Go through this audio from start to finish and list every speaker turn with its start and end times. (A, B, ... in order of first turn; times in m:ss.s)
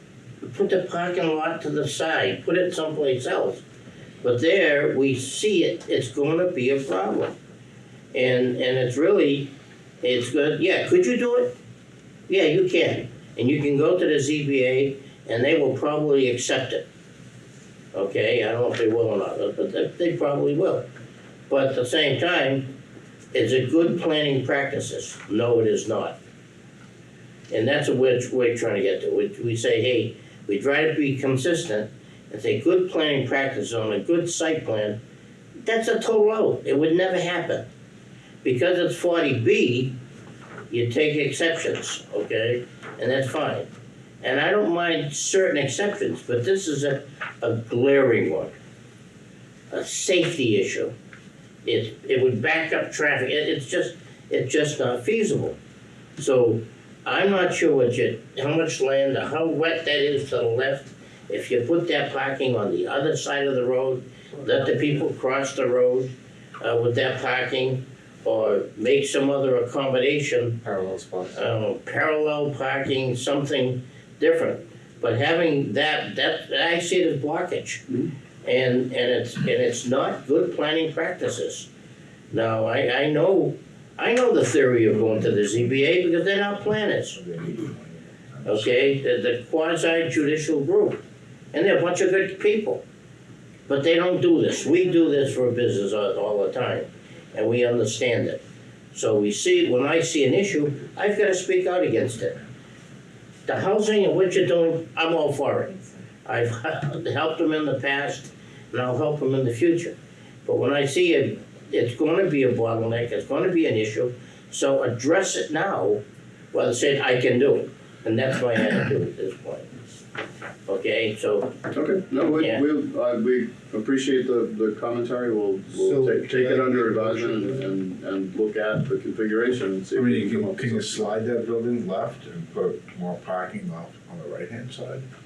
0:00.4-0:03.6 A
0:04.2-0:07.4 A
0:08.1-0:11.5 A
0:12.3-0:16.8 A
0:17.9-0:20.9 A
0:21.5-0:22.8 A
0:23.3-0:26.2 A
0:27.5-0:35.0 A
0:35.6-0:37.7 A
0:38.4-0:40.0 A
0:40.7-0:43.7 A
0:44.2-0:48.5 A
0:49.7-0:50.9 A
0:51.6-0:55.6 A
0:56.2-1:10.6 A
1:10.6-1:11.4 B
1:11.3-1:17.8 A
1:18.4-1:21.7 A
1:22.3-1:27.2 A
1:27.1-1:28.9 C
1:28.4-1:32.8 A
1:33.7-1:38.4 A
1:38.9-1:42.4 A
1:43.5-1:59.8 A
2:00.7-2:01.6 A
2:01.7-2:11.2 D
2:05.7-2:07.7 B
2:09.9-2:15.1 C